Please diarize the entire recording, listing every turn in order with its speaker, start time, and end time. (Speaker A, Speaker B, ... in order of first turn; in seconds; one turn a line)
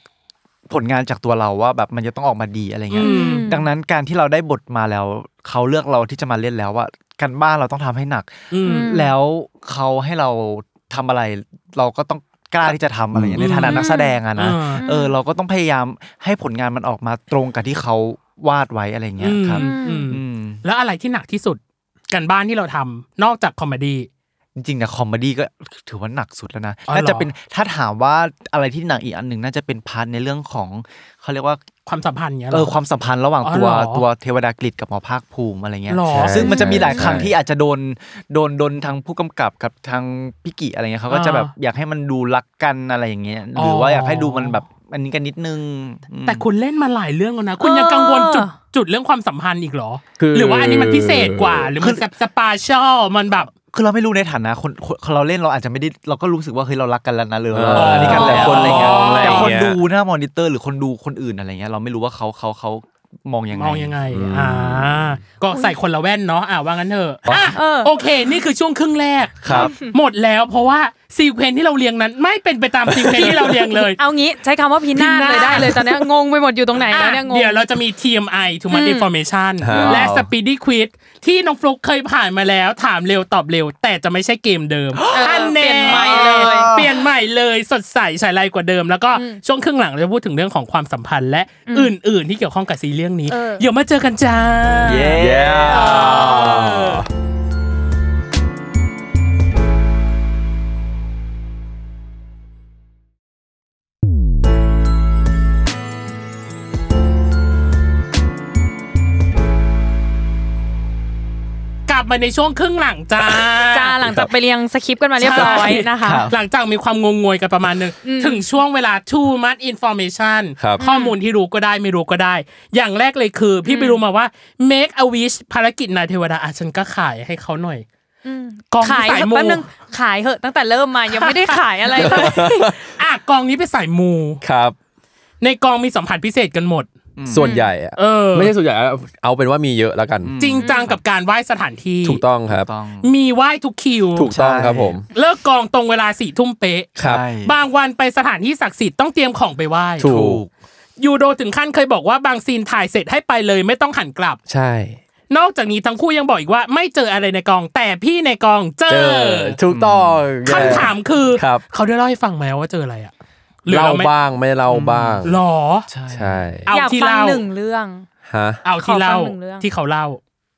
Speaker A: 0.7-20.6
Speaker B: 2.9-3.5
Speaker C: 3.0-3.7
Speaker B: 8.5-8.9
Speaker C: 8.6-9.1
Speaker D: 13.1-13.7
Speaker B: 13.4-14.8
Speaker C: 13.7-14.2
Speaker C: 14.8-15.1
Speaker B: 19.2-24.1
Speaker C: 19.5-20.1
Speaker A: 24.6-31.6
Speaker B: 26.9-27.3
Speaker B: 31.9-32.7
Speaker A: 32.5-46.5
Speaker B: 33.4-34.0
Speaker B: 35.9-36.7
Speaker D: 36.1-37.3
Speaker C: 36.4-37.1
Speaker B: 41.1-41.5
Speaker B: 43.5-44.6
Speaker B: 46.2-53.5
Speaker C: 47.6-48.5
Speaker D: 50.2-51.7
Speaker A: 51.8-52.0
Speaker A: 53.7-64.0
Speaker D: 57.5-59.8
Speaker B: 57.7-59.5
Speaker C: 58.1-58.6
Speaker B: 63.5-74.0
Speaker D: 64.1-65.0
Speaker C: 65.5-65.8
Speaker C: 67.5-68.3
Speaker A: 69.4-69.7
Speaker D: 69.4-69.7
Speaker C: 69.6-69.9
Speaker D: 72.9-73.5
Speaker C: 74.0-77.6
Speaker B: 74.9-75.8
Speaker B: 76.9-97.0
Speaker C: 78.7-79.1
Speaker D: 79.6-80.3
Speaker C: 79.7-80.0
Speaker A: 85.0-87.0
Speaker C: 85.1-86.7
Speaker C: 89.1-89.4
Speaker C: 93.3-93.7
Speaker A: 94.8-96.2
Speaker D: 95.1-97.1
Speaker B: 111.9-114.0
Speaker C: 113.7-116.3
Speaker D: 114.0-114.3
Speaker B: 115.2-127.8
Speaker A: 115.3-116.3
Speaker C: 118.0-118.4
Speaker C: 120.8-121.2
Speaker C: 123.6-124.0
Speaker C: 128.2-132.5
Speaker B: 128.7-129.6
Speaker B: 131.1-134.4
Speaker D: 131.9-132.9
Speaker D: 134.4-134.8
Speaker B: 135.4-136.9
Speaker A: 137.2-137.5
Speaker D: 137.2-140.3
Speaker C: 137.4-137.7
Speaker B: 138.0-138.5
Speaker A: 140.2-140.9
Speaker B: 140.4-142.2
Speaker C: 140.6-140.9
Speaker D: 142.0-142.7
Speaker A: 142.5-143.1
Speaker B: 143.0-144.3
Speaker D: 144.1-145.1
Speaker A: 144.3-145.0
Speaker B: 145.1-150.1
Speaker A: 147.0-147.5
Speaker D: 147.0-147.2
Speaker D: 150.0-150.4
Speaker A: 150.0-150.5
Speaker B: 151.0-154.4
Speaker D: 154.5-155.0
Speaker B: 155.3-159.6
Speaker D: 158.9-161.6
Speaker A: 159.7-160.9
Speaker B: 160.4-163.1
Speaker B: 163.7-164.1
Speaker D: 163.7-165.4
Speaker A: 164.7-165.3
Speaker B: 165.2-165.9
Speaker A: 165.9-166.5
Speaker D: 166.1-166.7
Speaker B: 166.7-167.4
Speaker C: 166.7-168.1
Speaker D: 168.3-168.6
Speaker B: 168.6-170.2
Speaker C: 168.8-169.7